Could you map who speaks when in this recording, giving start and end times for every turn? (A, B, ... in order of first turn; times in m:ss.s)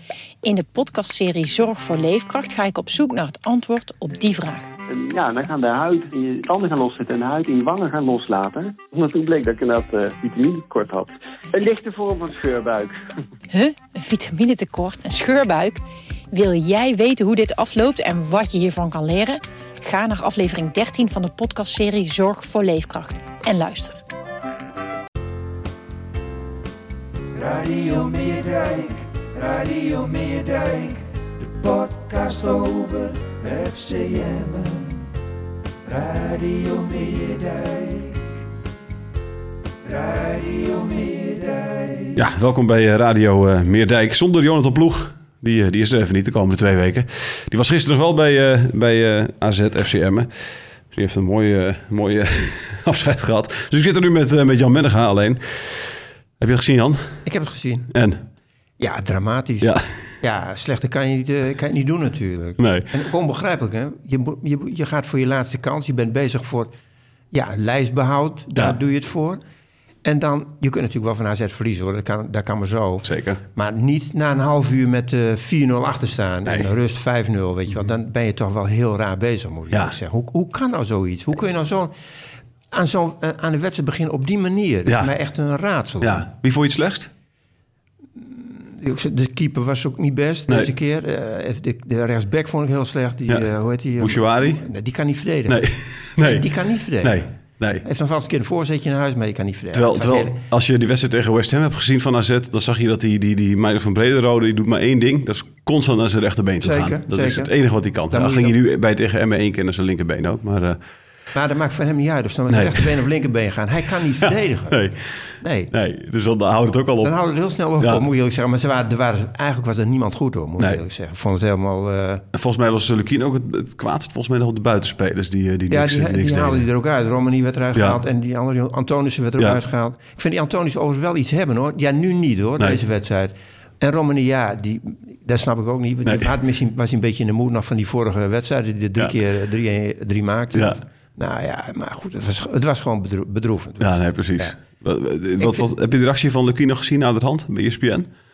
0:00.4-0:04.7 A
0:04.9-0:13.0 B
0:13.5-0:24.0 A
0:27.6-0:28.9 C
0:29.6-0:30.8 C
0:31.8-0:33.0 C
0:32.1-0:32.8 D
0:33.7-0:34.6 D
0:33.9-0:34.6 C
0:36.3-0:37.6 D
0:42.1-0:50.3 E
0:50.9-0:55.8 E
0:56.4-0:57.2 E
0:57.2-0:57.9 C
0:57.9-0:58.2 E
0:58.8-1:06.7 C
1:02.6-1:02.9 E
1:07.3-1:09.4 C
1:10.0-1:21.9 C
1:13.0-1:13.4 E
1:19.7-1:20.0 E
1:22.7-1:26.2 C
1:24.8-1:25.1 E
1:26.0-1:27.1 E
1:28.2-1:35.6 C
1:34.0-1:34.6 E
1:35.5-1:37.8 E
1:36.2-1:37.3 C
1:37.8-1:40.4 C
1:39.7-1:50.8 E
1:46.6-1:47.5 C
1:48.1-1:48.5 C
1:51.3-1:54.8 C
1:52.5-1:52.9 E
1:54.2-1:57.1 E
1:55.4-1:55.7 C
1:57.0-2:02.2 C
2:02.3-2:06.7 E
2:05.7-2:24.6 C
2:16.0-2:16.3 E
2:23.8-2:28.1 E
2:25.4-2:25.7 C